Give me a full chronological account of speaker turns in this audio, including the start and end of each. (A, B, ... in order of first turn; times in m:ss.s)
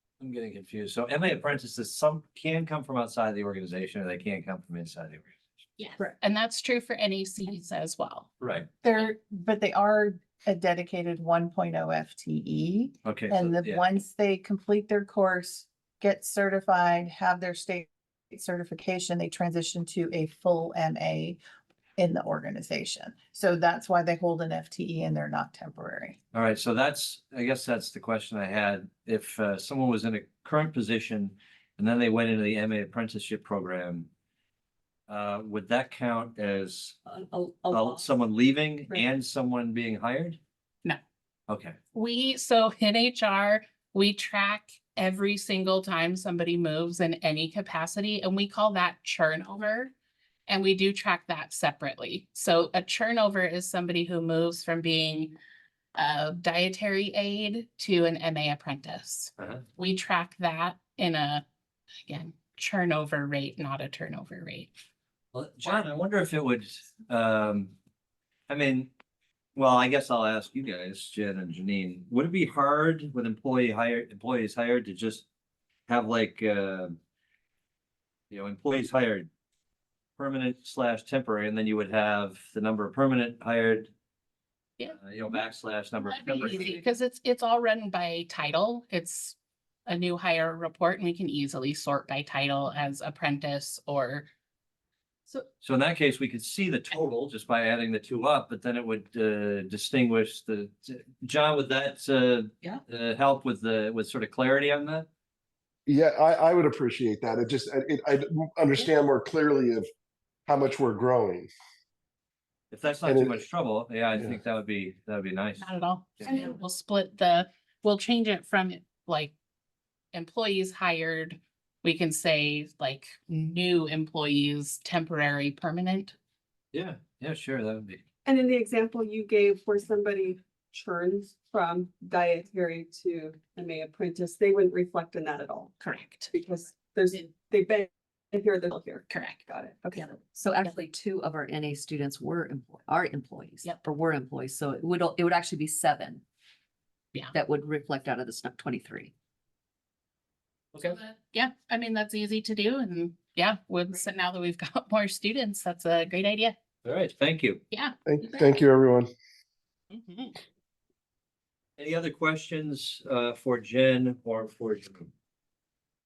0:00.2-0:05.3 A
0:05.8-0:08.3 B
0:08.4-0:08.7 A
0:08.8-0:21.4 C
0:13.0-0:13.8 A
0:22.0-0:26.2 C
0:26.3-0:34.1 A
0:35.1-0:37.0 A
0:37.1-0:38.2 D
0:37.7-0:40.4 A
0:41.5-0:41.8 A
0:41.9-0:49.9 B
0:50.5-0:55.4 B
0:56.0-1:01.4 B
0:59.4-0:59.6 A
1:02.1-1:04.7 B
1:05.3-1:07.7 A
1:08.5-1:08.9 A
1:09.6-1:15.3 A
1:15.9-1:17.0 A
1:18.3-1:19.3 A
1:20.2-1:23.9 A
1:24.9-1:26.8 A
1:26.0-1:34.3 B
1:35.6-1:45.1 A
1:45.9-1:49.9 E
1:50.5-1:51.5 E
1:52.7-1:56.5 A
1:53.0-1:53.4 E
1:55.6-1:59.3 B
2:00.1-2:06.2 B
2:06.7-2:08.0 A
2:08.2-2:15.7 F
2:15.8-2:16.3 B
2:16.3-2:20.2 F
2:19.1-2:19.4 B
2:20.2-2:26.2 D
2:27.3-2:29.1 D
2:30.7-2:31.0 A
2:30.8-2:36.6 B
2:36.8-2:37.6 A
2:37.7-2:38.5 B
2:38.1-2:39.1 E
2:39.9-2:40.4 B
2:41.8-2:45.1 A